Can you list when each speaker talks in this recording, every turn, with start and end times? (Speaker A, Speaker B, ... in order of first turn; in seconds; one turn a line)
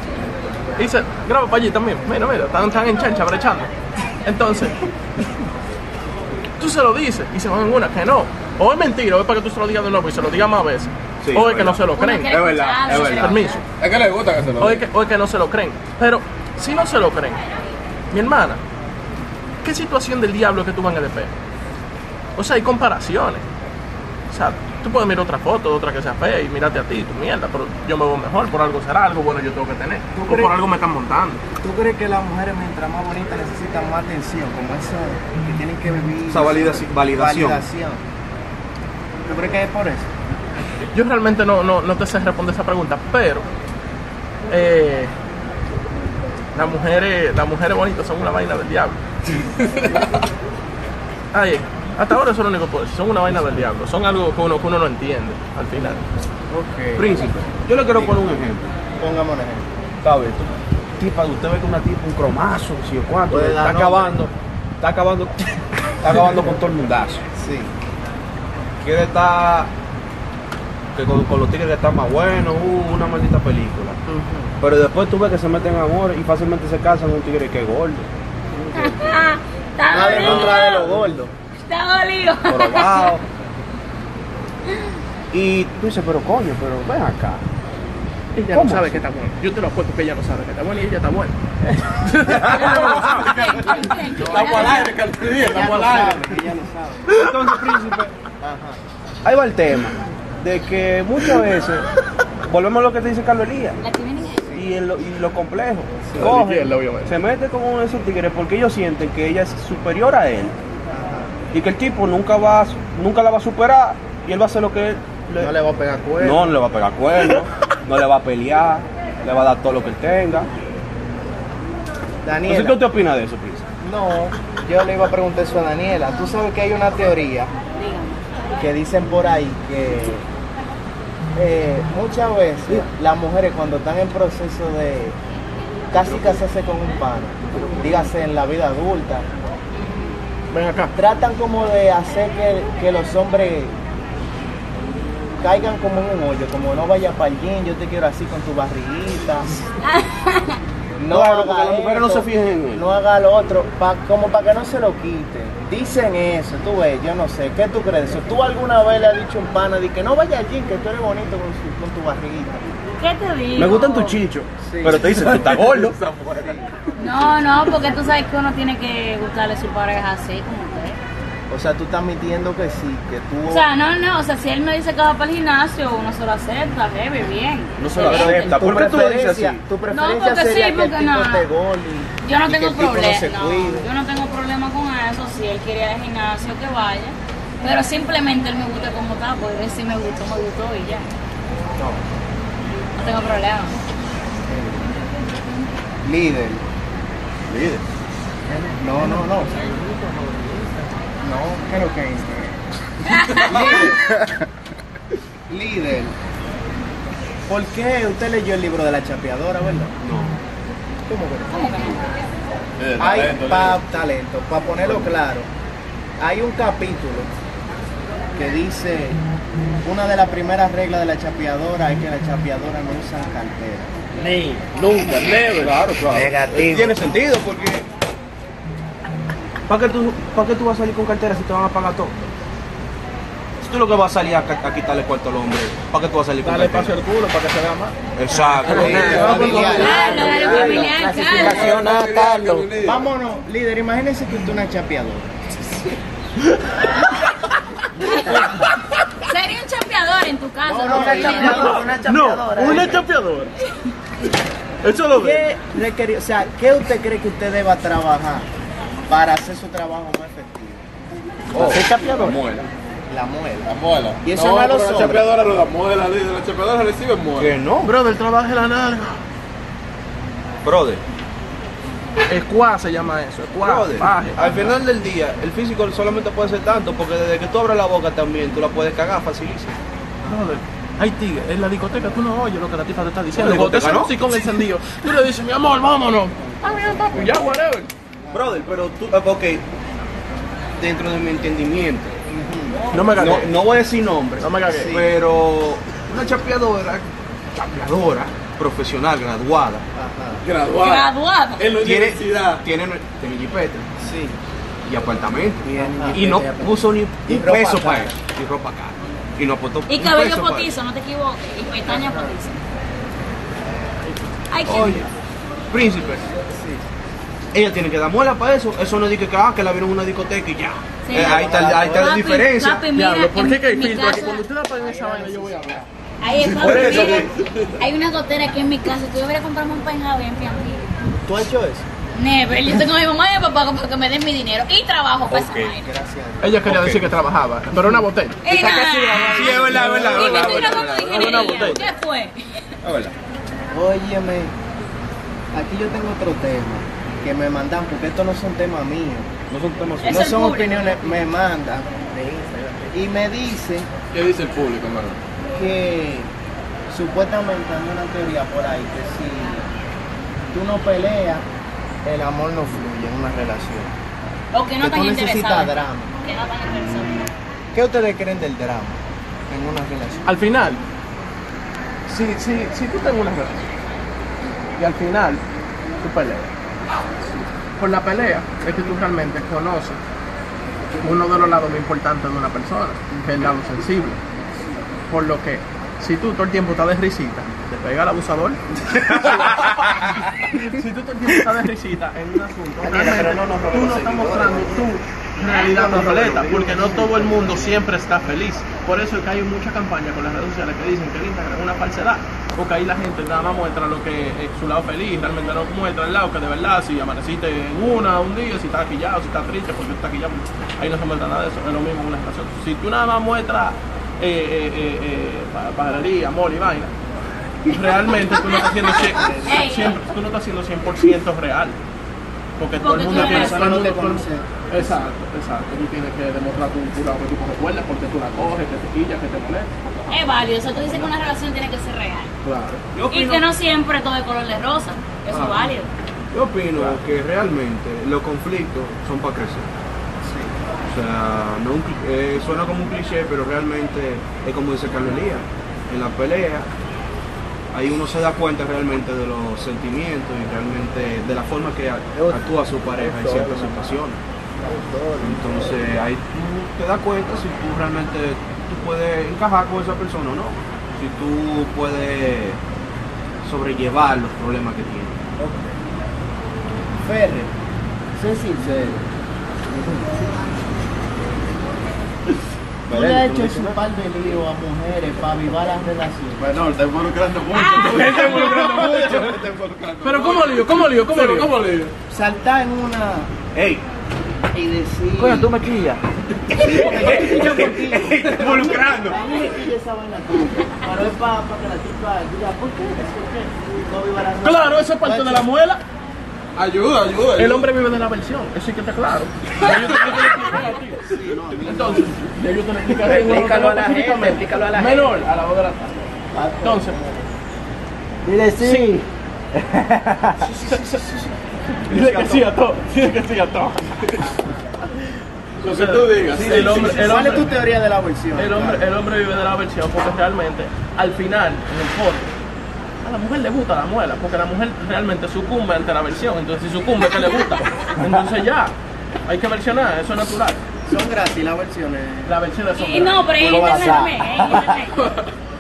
Speaker A: 0.8-3.7
Speaker A: 4.2-4.8
Speaker A: 6.6-13.6
Speaker B: 11.2-11.8
Speaker C: 11.9-13.6
Speaker D: 12.4-14.8
Speaker A: 14.6-17.4
Speaker A: 18.1-18.6
Speaker A: 19.6-21.3
Speaker A: 22.4-23.4
Speaker A: 24.3-31.4
Speaker E: 30.1-30.5
Speaker E: 31.6-38.0
Speaker B: 36.3-37.6
Speaker E: 39.3-40.1
Speaker A: 40.9-43.5
Speaker A: 44.5-45.1
Speaker A: 46.5-49.0
Speaker A: 51.3-56.0
Speaker E: 56.5-57.3
Speaker B: 57.0-58.7
Speaker E: 57.9-58.3
Speaker E: 59.0-59.7
Speaker B: 60.0-67.2
Speaker E: 63.3-64.2
Speaker E: 67.3-67.7
Speaker B: 68.8-69.7
Speaker B: 70.9-74.0
Speaker E: 74.1-74.5
Speaker B: 74.6-78.1
Speaker E: 78.6-79.0
Speaker C: 78.8-80.9
Speaker E: 79.9-81.3
Speaker B: 80.1-80.5
Speaker C: 81.6-83.2
Speaker B: 82.5-83.2
Speaker B: 85.3-87.5
Speaker A: 88.4-93.9
Speaker B: 88.5-89.0
Speaker D: 92.4-96.4
Speaker C: 92.5-95.1
Speaker E: 95.3-97.2
Speaker A: 97.1-97.6
Speaker B: 97.2-98.1
Speaker E: 98.4-98.8
Speaker B: 99.2-101.9
Speaker B: 102.5-103.8
Speaker C: 103.8-104.4
Speaker E: 104.4-104.7
Speaker B: 104.5-110.5
Speaker E: 106.0-106.4
Speaker A: 106.2-107.2
Speaker E: 110.9-111.3
Speaker B: 111.5-115.5
Speaker E: 115.4-116.6
Speaker B: 116.2-120.5
Speaker E: 122.2-122.8
Speaker B: 122.5-123.7
Speaker E: 123.8-127.5
Speaker C: 127.8-128.2
Speaker E: 128.6-130.2
Speaker E: 131.3-135.2
Speaker E: 135.9-139.3
Speaker B: 136.0-136.4
Speaker A: 140.5-140.9
Speaker E: 140.9-143.8
Speaker E: 145.4-149.6
Speaker C: 149.8-150.6
Speaker E: 151.0-162.6
Speaker B: 151.1-152.8
Speaker C: 163.0-164.2
Speaker B: 163.6-166.0
Speaker E: 164.6-165.1
Speaker D: 165.1-166.6
Speaker E: 166.3-166.7
Speaker C: 167.0-171.0
Speaker E: 171.5-173.7
Speaker C: 173.5-178.7
Speaker B: 177.8-179.6
Speaker E: 178.1-183.9
Speaker C: 179.9-181.5
Speaker C: 182.2-191.1
Speaker E: 191.8-192.0
Speaker C: 193.0-193.7
Speaker E: 194.5-194.9
Speaker E: 196.0-196.6
Speaker D: 197.5-197.8
Speaker E: 198.5-199.6
Speaker E: 201.2-202.6
Speaker C: 203.1-203.6
Speaker E: 203.3-204.2
Speaker E: 205.5-206.1
Speaker E: 207.5-209.9
Speaker B: 210.0-210.4
Speaker E: 211.1-211.9
Speaker C: 211.5-212.0
Speaker D: 212.8-213.8
Speaker E: 213.0-215.5
Speaker E: 216.2-217.3
Speaker E: 218.4-219.2
Speaker E: 219.8-223.9
Speaker D: 224.3-226.3
Speaker A: 225.2-225.5
Speaker B: 225.6-227.9
Speaker E: 226.1-226.9
Speaker B: 229.7-232.2
Speaker B: 233.6-237.0
Speaker A: 236.4-238.0
Speaker B: 238.2-240.3
Speaker A: 238.6-241.4
Speaker E: 238.7-240.9
Speaker D: 238.7-243.1
Speaker C: 239.7-241.7
Speaker E: 242.8-245.3
Speaker C: 248.0-248.5
Speaker C: 249.3-251.9
Speaker E: 250.6-253.1
Speaker A: 251.1-253.5
Speaker A: 254.8-255.5
Speaker E: 255.1-258.5
Speaker E: 259.1-260.9
Speaker B: 261.5-262.7
Speaker E: 261.6-262.4
Speaker D: 261.6-262.4
Speaker E: 263.1-265.4
Speaker D: 263.6-267.6
Speaker B: 267.4-268.0
Speaker A: 267.8-269.2
Speaker B: 270.6-271.0
Speaker A: 272.3-274.7
Speaker B: 273.5-279.8
Speaker A: 280.3-287.9
Speaker B: 283.3-284.2
Speaker E: 288.3-288.6
Speaker B: 288.3-289.6
Speaker B: 290.8-292.1
Speaker E: 292.3-292.9
Speaker A: 292.9-293.5
Speaker B: 293.1-299.8
Speaker A: 294.4-294.9
Speaker E: 294.7-295.1
Speaker E: 299.9-300.4
Speaker D: 300.4-301.1
Speaker C: 300.8-301.8
Speaker D: 301.6-302.5
Speaker B: 301.8-303.9
Speaker E: 304.0-304.4
Speaker B: 304.9-310.7
Speaker E: 305.7-308.2
Speaker C: 309.9-312.6
Speaker E: 311.9-312.4
Speaker E: 313.7-314.1
Speaker C: 314.5-315.1
Speaker B: 314.7-315.1
Speaker B: 315.7-316.3
Speaker E: 316.4-316.8
Speaker B: 317.5-322.8
Speaker C: 321.1-324.4
Speaker E: 321.1-322.2
Speaker A: 322.9-325.9
Speaker E: 324.8-325.9
Speaker C: 326.2-330.9
Speaker D: 326.5-327.2
Speaker A: 326.6-327.2
Speaker B: 326.6-327.3
Speaker E: 331.2-331.9
Speaker C: 332.1-335.9
Speaker B: 335.3-335.7
Speaker E: 335.8-336.7
Speaker A: 336.4-338.4
Speaker B: 336.6-337.2
Speaker C: 338.4-342.4
Speaker D: 339.0-341.5
Speaker B: 339.3-341.9
Speaker E: 339.4-340.4
Speaker A: 341.1-341.8
Speaker B: 342.8-343.1
Speaker E: 343.7-344.5
Speaker E: 345.5-349.3
Speaker B: 349.5-350.3
Speaker C: 350.0-351.2
Speaker E: 350.0-353.9
Speaker D: 354.1-355.2
Speaker E: 355.5-356.3
Speaker E: 356.9-359.7
Speaker E: 360.5-361.4
Speaker E: 362.1-363.9
Speaker C: 364.5-367.3
Speaker E: 364.8-366.1
Speaker E: 367.7-369.0
Speaker E: 369.5-370.2
Speaker A: 370.3-370.8
Speaker A: 372.1-373.6
Speaker A: 374.8-375.4
Speaker A: 376.0-376.4
Speaker A: 377.8-380.0
Speaker E: 381.0-381.6
Speaker A: 381.0-384.2
Speaker E: 383.1-383.4
Speaker A: 385.1-416.9
Speaker B: 392.9-393.5
Speaker C: 395.5-395.9
Speaker E: 395.7-397.8
Speaker A: 417.7-421.8
Speaker E: 418.9-419.6
Speaker C: 419.3-420.1
Speaker A: 422.6-429.7
Speaker C: 422.8-423.7
Speaker E: 422.9-424.5
Speaker C: 430.1-432.3
Speaker A: 432.4-432.8
Speaker B: 432.9-433.5
Speaker C: 433.1-435.9
Speaker B: 435.3-435.7
Speaker B: 436.3-439.7
Speaker E: 440.2-440.6
Speaker B: 440.9-446.7
Speaker B: 447.7-454.2
Speaker E: 453.0-453.9
Speaker E: 454.6-455.9
Speaker B: 455.2-462.6
Speaker B: 463.4-465.2
Speaker E: 465.4-465.7
Speaker E: 467.0-467.5
Speaker E: 468.2-469.1
Speaker E: 469.7-470.1
Speaker B: 472.9-473.8
Speaker E: 472.9-476.6
Speaker D: 476.4-481.6
Speaker A: 477.6-479.3
Speaker A: 480.0-481.9
Speaker E: 482.1-483.3
Speaker B: 483.5-483.8
Speaker E: 484.5-485.5
Speaker B: 485.2-486.0
Speaker E: 486.5-495.5
Speaker B: 486.6-488.8
Speaker D: 486.9-489.2
Speaker A: 494.4-495.8
Speaker D: 496.6-497.7
Speaker A: 497.4-501.1
Speaker D: 499.6-500.2
Speaker E: 501.0-502.2
Speaker A: 501.7-505.9
Speaker E: 503.1-505.1
Speaker E: 506.3-507.3
Speaker A: 506.6-507.0
Speaker A: 508.6-508.9
Speaker E: 510.4-511.1
Speaker A: 510.7-511.0
Speaker A: 511.9-514.2
Speaker E: 512.0-512.4
Speaker A: 515.6-517.5
Speaker D: 515.6-517.0
Speaker E: 516.4-518.9
Speaker A: 518.4-522.3
Speaker A: 523.0-528.8
Speaker A: 529.3-530.6
Speaker E: 530.9-532.4
Speaker A: 532.3-534.0
Speaker C: 532.7-535.0
Speaker E: 533.3-534.8
Speaker A: 535.0-535.3